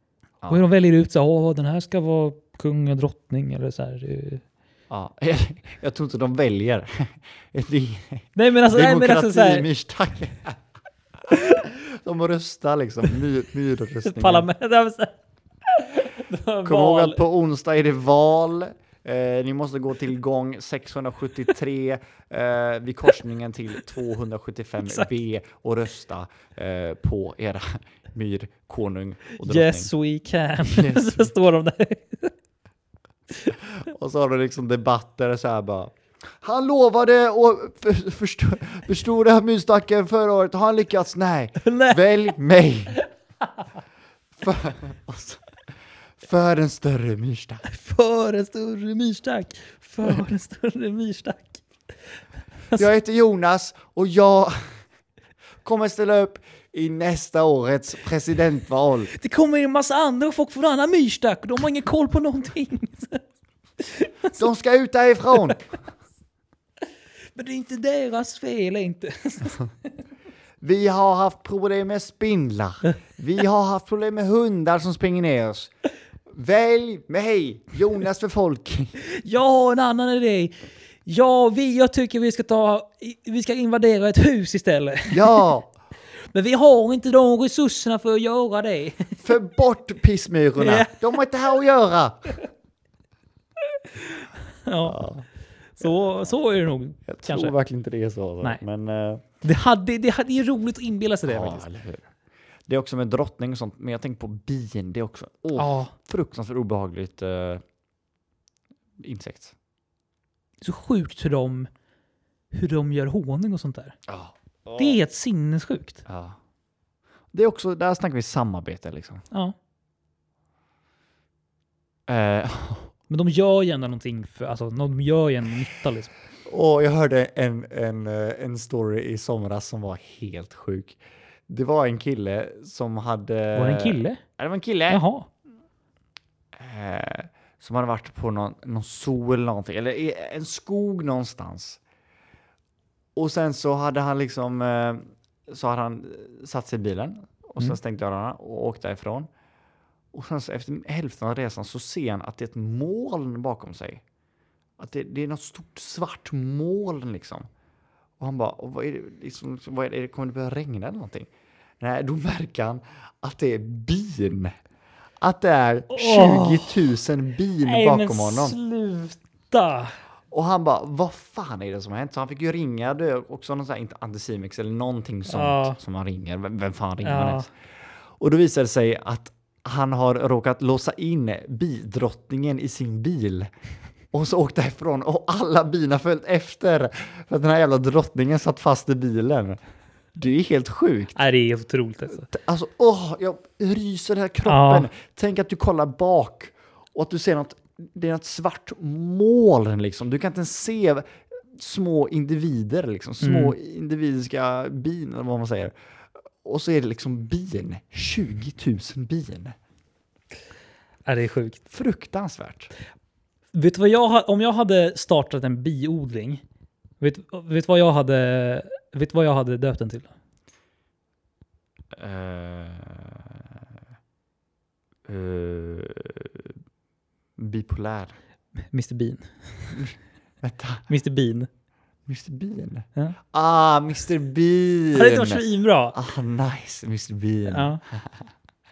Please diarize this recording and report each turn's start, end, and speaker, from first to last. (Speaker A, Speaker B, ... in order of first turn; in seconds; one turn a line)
Speaker A: 0.4-0.7
Speaker B: 0.5-4.4
Speaker A: 4.9-10.6
Speaker B: 8.3-9.7
Speaker A: 11.2-14.5
Speaker B: 14.0-15.1
Speaker B: 15.7-17.2
Speaker A: 16.6-29.9
Speaker B: 24.8-25.1
Speaker B: 29.4-32.3
Speaker A: 30.7-31.3
Speaker A: 33.6-43.0
Speaker B: 41.6-42.0
Speaker A: 44.4-45.4
Speaker A: 46.2-47.6
Speaker B: 47.6-51.6
Speaker A: 52.8-54.6
Speaker A: 55.6-59.1
Speaker B: 59.1-63.2
Speaker B: 63.8-64.4
Speaker A: 64.4-65.7
Speaker B: 67.3-69.7
Speaker A: 70.6-75.7
Speaker A: 76.3-78.9
Speaker B: 79.2-85.5
Speaker A: 85.1-85.7
Speaker B: 86.3-89.2
Speaker A: 89.2-92.3
Speaker B: 90.6-91.2
Speaker B: 93.9-95.0
Speaker A: 94.8-95.2
Speaker B: 95.8-97.5
Speaker A: 97.1-99.2
Speaker B: 99.4-101.7
Speaker A: 101.3-102.1
Speaker A: 102.7-107.6
Speaker B: 105.6-105.9
Speaker A: 109.0-109.5
Speaker B: 110.6-111.7
Speaker B: 112.5-114.0
Speaker A: 114.1-115.0
Speaker B: 114.8-116.0
Speaker A: 116.1-116.4
Speaker A: 117.3-119.2
Speaker A: 122.1-122.9
Speaker B: 123.1-126.1
Speaker A: 126.5-135.0
Speaker B: 133.6-134.2
Speaker B: 134.9-135.3
Speaker A: 136.6-141.8
Speaker A: 143.2-149.3
Speaker A: 150.1-154.0
Speaker A: 154.8-157.5
Speaker A: 158.2-164.6
Speaker A: 165.2-168.6
Speaker B: 165.9-166.9
Speaker B: 167.6-170.0
Speaker A: 170.3-177.5
Speaker B: 175.3-175.8
Speaker B: 177.0-177.5
Speaker A: 178.2-183.5
Speaker A: 184.1-189.6
Speaker A: 190.2-191.2
Speaker B: 191.2-192.3
Speaker A: 192.3-205.7
Speaker B: 194.5-194.9
Speaker B: 203.2-203.6
Speaker A: 206.4-209.6
Speaker B: 211.1-211.6
Speaker A: 211.7-212.7
Speaker B: 213.5-216.4
Speaker B: 217.0-220.1
Speaker A: 221.9-223.5
Speaker A: 225.1-226.6
Speaker A: 227.4-228.2
Speaker B: 228.7-229.9
Speaker A: 229.7-230.8
Speaker B: 230.9-231.5
Speaker A: 232.1-235.4
Speaker B: 234.9-236.0
Speaker A: 235.9-238.3
Speaker B: 237.5-237.8